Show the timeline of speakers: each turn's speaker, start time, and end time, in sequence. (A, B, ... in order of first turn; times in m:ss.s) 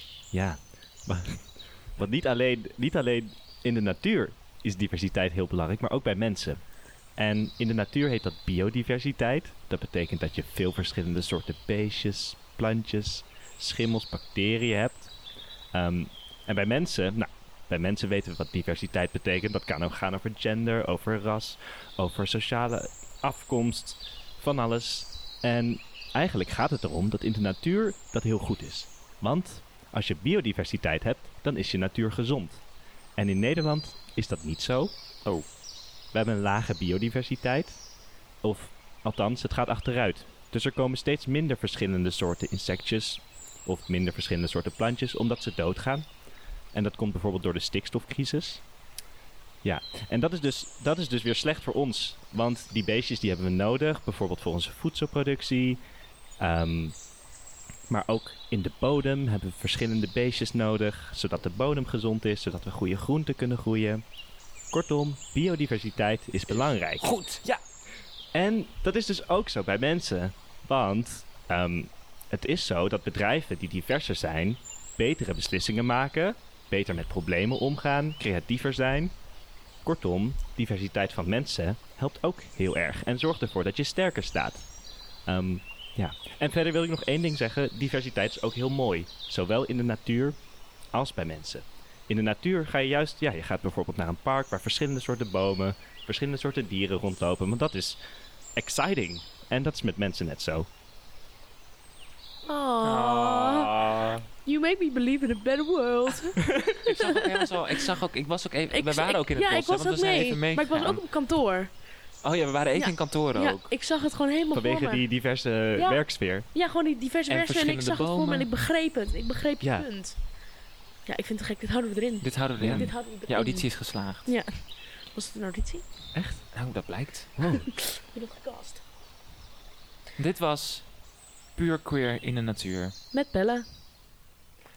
0:00.3-0:15.1 A
0:15.7-0:32.6 A
0:33.2-0:34.9 A
0:36.1-0:37.9 A
0:38.4-0:46.1 A
0:46.7-0:48.6 A
0:49.6-0:55.8 A
0:56.4-0:57.0 A
0:57.9-1:04.0 A
1:04.7-1:07.1 A
1:06.5-1:07.6 B
1:08.3-1:19.1 A
1:19.8-1:24.7 A
1:25.3-1:30.4 A
1:30.9-1:38.0 A
1:38.6-1:40.7 A
1:42.5-1:43.9 C
1:42.8-1:44.3 B
1:44.4-1:47.5 C
1:46.8-1:51.0 B
1:48.7-1:51.8 C
1:52.2-1:53.7 B
1:52.8-1:55.1 C
1:54.5-1:56.5 A
1:55.8-2:00.2 C
1:57.3-1:58.5 B
1:59.6-1:59.9 A
2:01.1-2:03.7 C
2:02.2-2:04.3 B
2:02.6-2:02.9 A
2:04.2-2:05.8 C
2:06.1-2:06.5 A
2:06.5-2:07.4 B
2:07.4-2:07.7 A
2:07.6-2:08.8 C
2:10.2-2:11.0 B
2:11.5-2:12.9 B
2:13.1-2:13.7 C